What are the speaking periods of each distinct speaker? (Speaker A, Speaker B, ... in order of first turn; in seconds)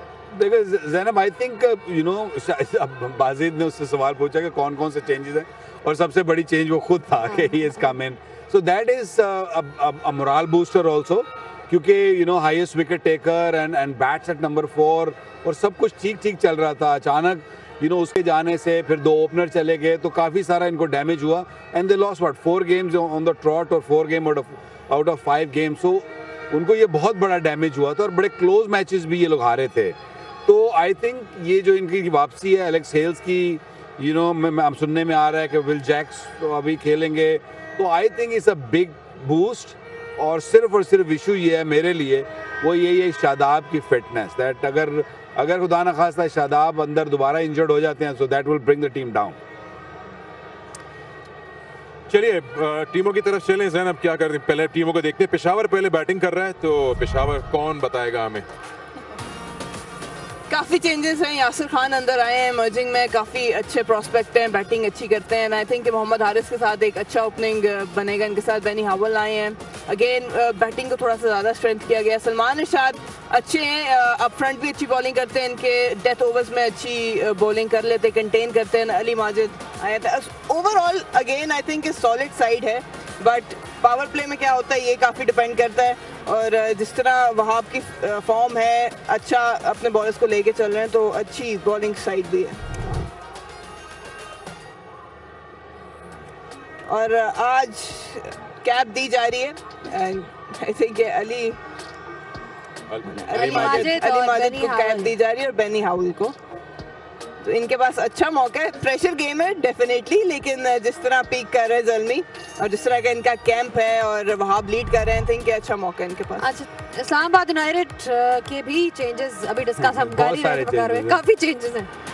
Speaker A: 0.3-49.4, 119.8-121.2
Speaker B: 52.1-58.5, 102.9-104.0
Speaker C: 60.5-92.6, 96.9-101.6, 103.1-106.4, 107.4-116.5
Speaker D: 103.3-105.1, 116.4-121.9